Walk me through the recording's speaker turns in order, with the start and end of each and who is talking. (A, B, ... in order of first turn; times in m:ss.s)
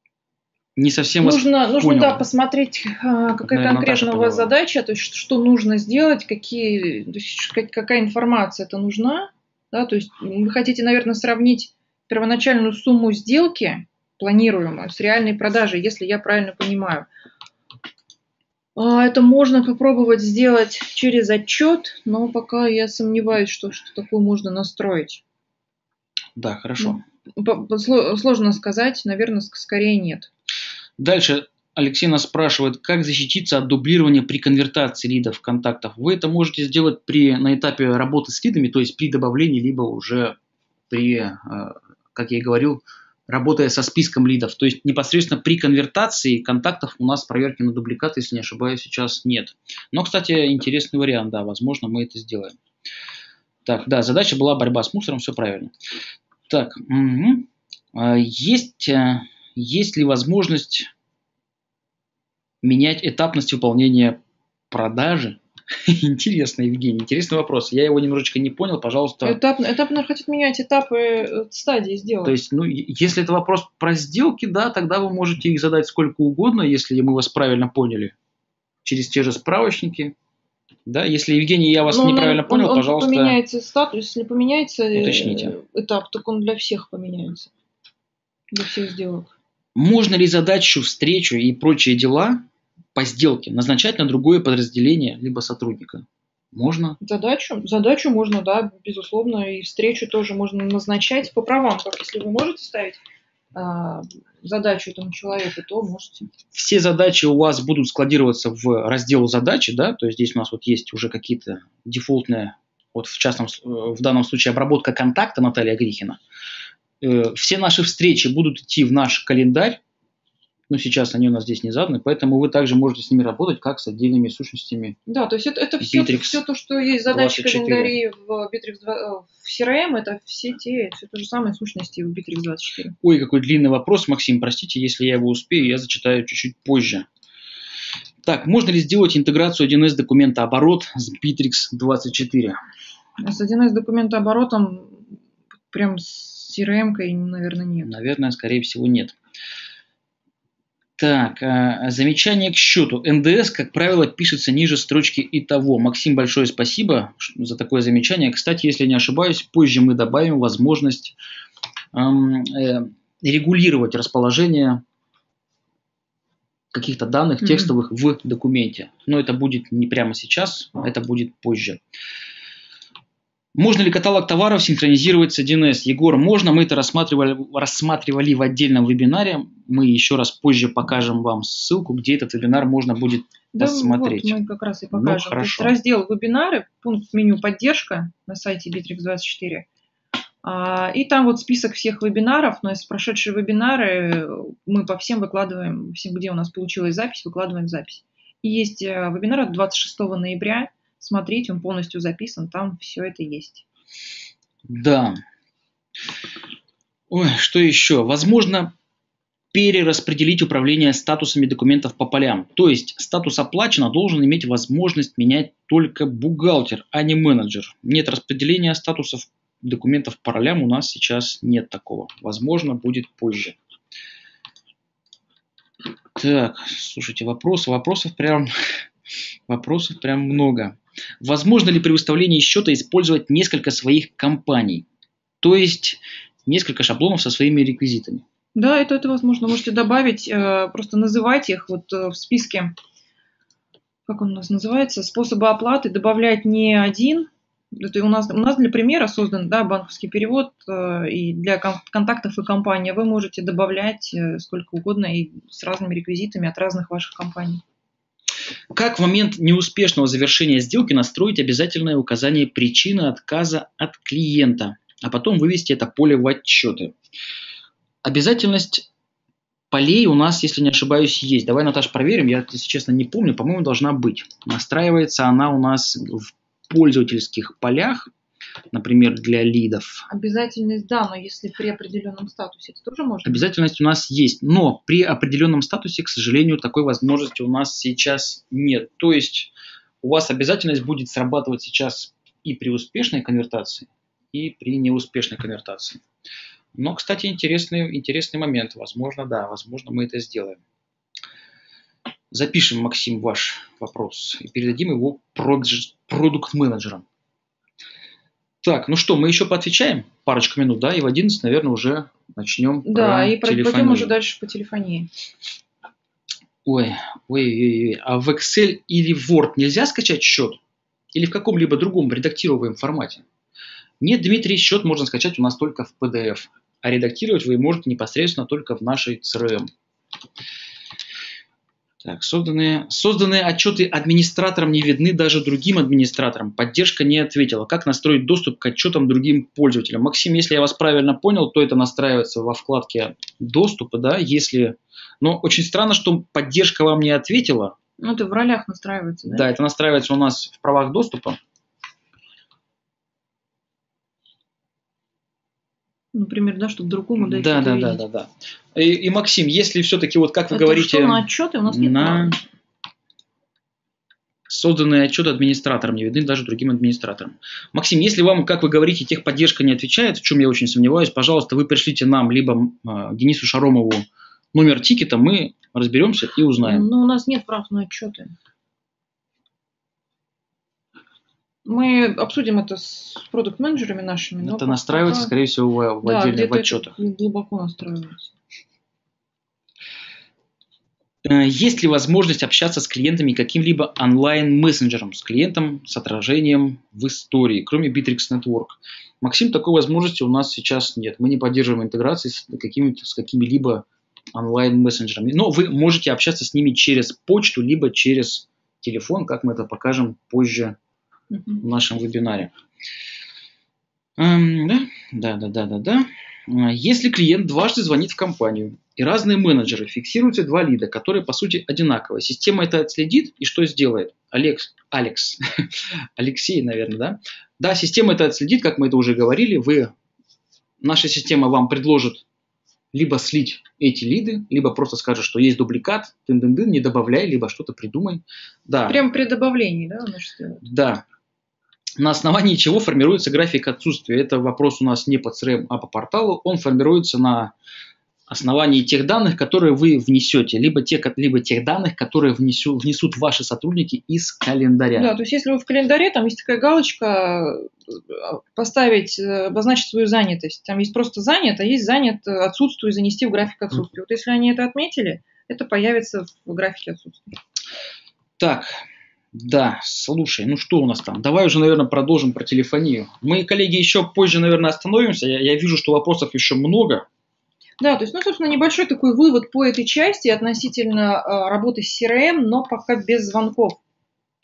0:00.8-0:02.2 A
0:01.2-0:17.1 B
0:03.4-0:04.5 A
0:18.8-0:25.2 B
0:26.4-0:27.0 A
0:26.8-0:30.3 B
0:31.0-0:40.4 A
0:40.9-0:52.6 A
0:53.6-0:55.7 A
0:56.5-1:00.9 A
1:02.6-1:04.2 A
1:04.7-1:09.4 A
1:09.2-1:12.4 B
1:12.2-1:18.1 A
1:18.8-1:20.1 A
1:20.9-1:23.4 A
1:21.9-1:27.5 B
1:24.9-1:25.6 A
1:28.5-1:29.3 B
1:29.8-1:32.4 A
1:32.9-1:37.0 A
1:37.0-1:43.0 B
1:43.5-1:46.3 B
1:46.5-1:56.2 A
1:57.0-1:59.8 A
2:00.7-2:05.0 A
2:05.1-2:12.9 B
2:05.8-2:06.4 A
2:07.1-2:08.0 A
2:13.0-2:17.1 A
2:18.2-2:22.6 A
2:23.2-2:25.2 B
2:25.7-2:27.9 B
2:27.8-2:29.2 A
2:31.0-2:41.1 A
2:41.9-2:44.8 A
2:46.7-2:51.8 A
2:53.6-3:04.4 A
3:03.5-3:09.7 B
3:04.9-3:05.8 A
3:10.4-3:23.6 B
3:24.7-3:25.2 A
3:27.1-3:28.7 A
3:29.5-3:43.6 A
3:46.2-3:48.5 A
3:49.5-3:54.8 A
3:55.4-3:58.2 A
3:58.6-4:02.7 B
4:04.1-4:17.6 B
4:18.7-4:26.9 A
4:28.0-4:28.8 A
4:29.7-4:38.1 A
4:38.7-4:40.0 A
4:40.1-4:43.4 B
4:43.3-4:49.5 A
4:50.0-4:56.0 A
4:56.7-5:00.6 A
5:02.3-5:07.0 A
5:08.6-5:14.1 A
5:12.8-5:15.1 B
5:16.6-5:20.6 A
5:21.1-5:23.2 A
5:24.0-5:29.7 A
5:32.0-5:47.8 A
5:48.0-5:49.5 B
5:49.3-5:51.4 A
5:56.1-5:58.0 B
5:57.2-6:02.4 A
6:00.5-6:02.4 B
6:04.5-6:16.8 A
6:16.6-6:18.3 B
6:21.6-6:25.3 B
6:24.4-6:27.0 A
6:26.0-6:28.3 B
6:31.2-6:50.8 A
6:51.3-6:51.6 B
6:51.6-6:52.5 A
6:54.2-7:05.4 A
7:06.2-7:09.9 A
7:10.8-7:12.2 A
7:12.9-7:19.0 A
7:18.9-7:20.6 B
7:20.6-7:21.0 A
7:22.0-7:27.5 A
7:28.3-7:35.1 A
7:35.0-7:47.4 B
7:48.4-7:57.0 A
7:57.8-8:03.8 B